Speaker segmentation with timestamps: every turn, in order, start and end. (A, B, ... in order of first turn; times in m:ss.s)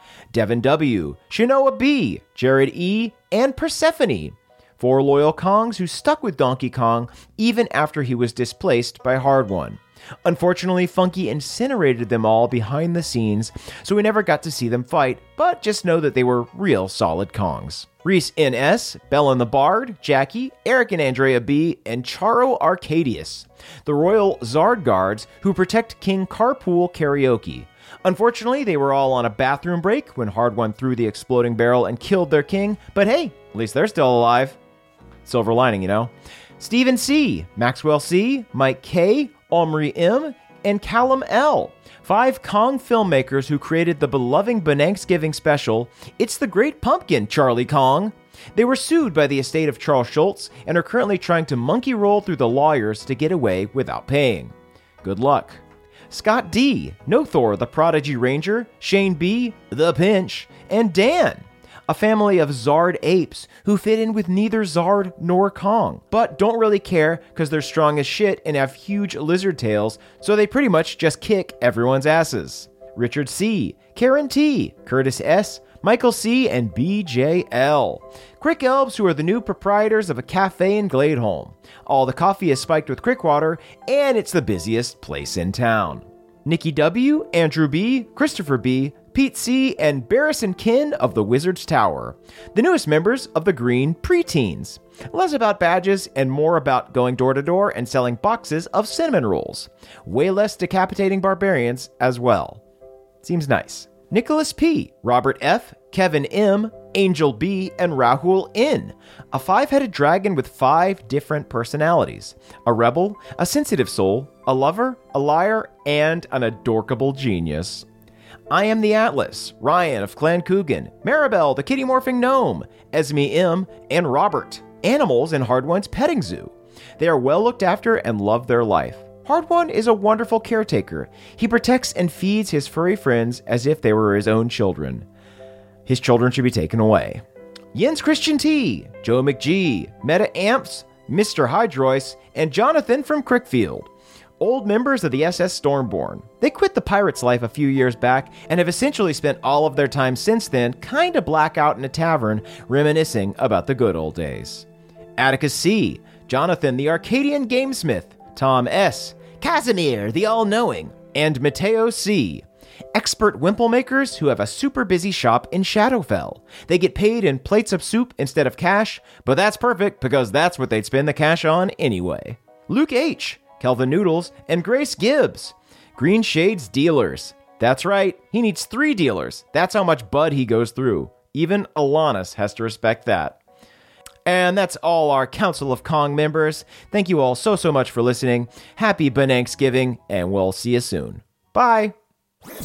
0:00.3-0:34.6 A
0:35.2-1:42.6 A
1:43.2-1:57.9 A
1:58.5-2:15.1 A
2:15.9-2:34.7 A
2:35.2-3:03.4 A
3:04.3-3:12.0 A